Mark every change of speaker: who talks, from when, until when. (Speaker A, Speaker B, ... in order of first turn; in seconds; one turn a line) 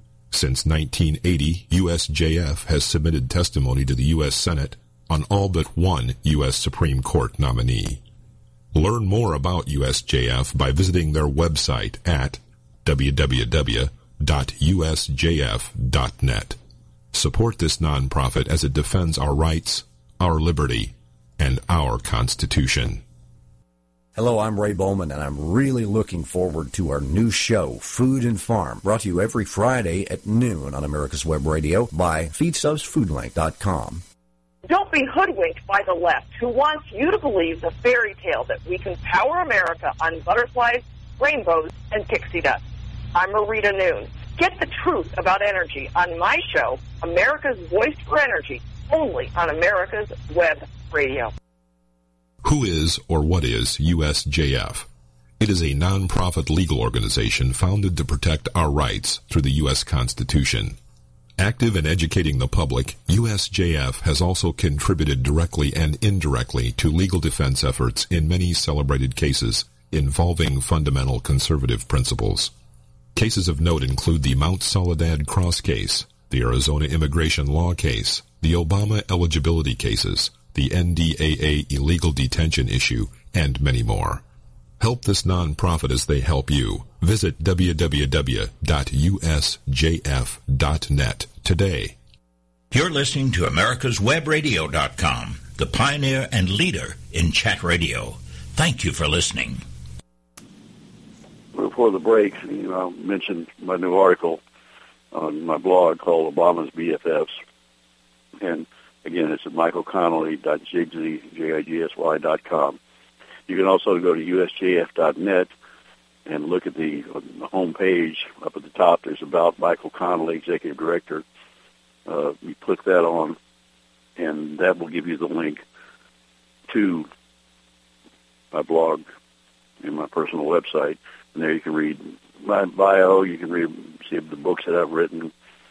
Speaker A: 0.3-8.0
Speaker A: 8.7-16.6
Speaker A: 17.1-23.0
Speaker B: 24.2-34.0
Speaker C: 34.7-42.6
Speaker C: 43.1-51.3
Speaker A: 52.4-54.9
Speaker A: 55.4-60.8
Speaker A: 61.4-72.5
Speaker A: 73.2-84.2
Speaker A: 84.8-92.0
Speaker D: 92.7-99.6
Speaker E: 101.5-104.4
Speaker E: 105.1-107.3
Speaker E: 108.4-112.8
Speaker E: 113.5-115.5
Speaker E: 116.3-121.2
Speaker E: 122.1-123.4
Speaker E: 124.2-125.6
Speaker E: 126.7-127.1
Speaker E: 128.5-129.0
Speaker E: 129.8-135.3